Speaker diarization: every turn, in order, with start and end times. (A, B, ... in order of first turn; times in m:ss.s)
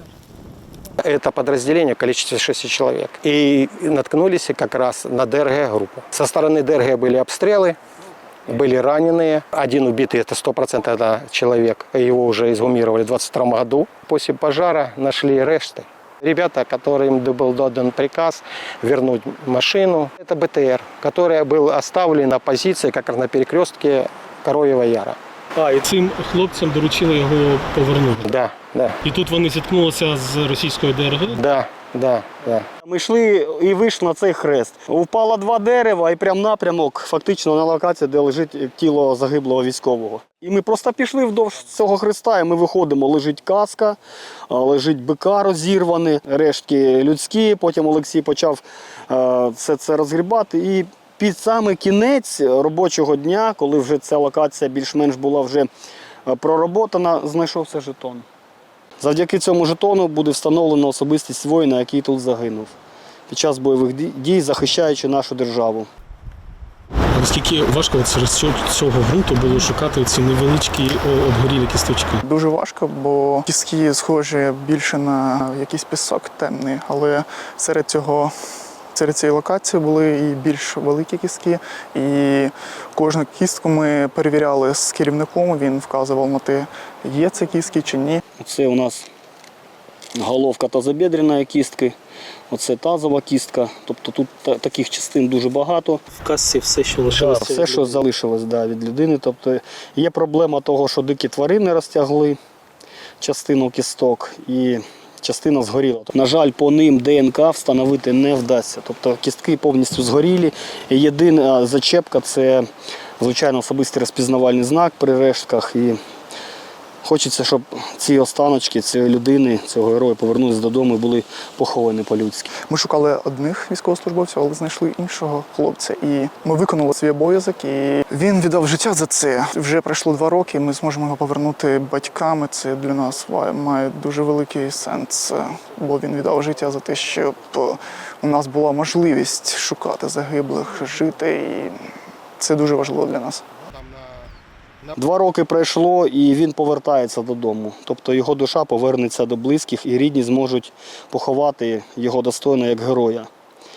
0:01.0-0:07.8 A
0:08.5-0:25.2 A
0:25.6-0:28.3 B
0:28.2-0:29.0 A
0:29.0-0:31.4 B
0:31.3-0:32.7 A
0:32.8-0:44.0 C
0:44.5-0:55.7 C
0:56.3-0:58.3 C
0:59.0-1:02.8 C
1:03.3-1:05.9 C
1:07.1-1:12.2 B
1:12.2-1:18.3 D
1:18.9-1:28.2 D
1:28.4-1:29.1 C
1:30.2-1:32.0 C
1:32.5-1:36.1 C
1:36.2-1:38.0 B
1:37.1-1:42.4 C
1:43.2-1:52.7 C
1:53.2-1:56.0 C
1:57.0-2:02.5 C
2:02.7-2:23.4 D
2:23.7-2:24.3 A
2:24.9-2:33.3 C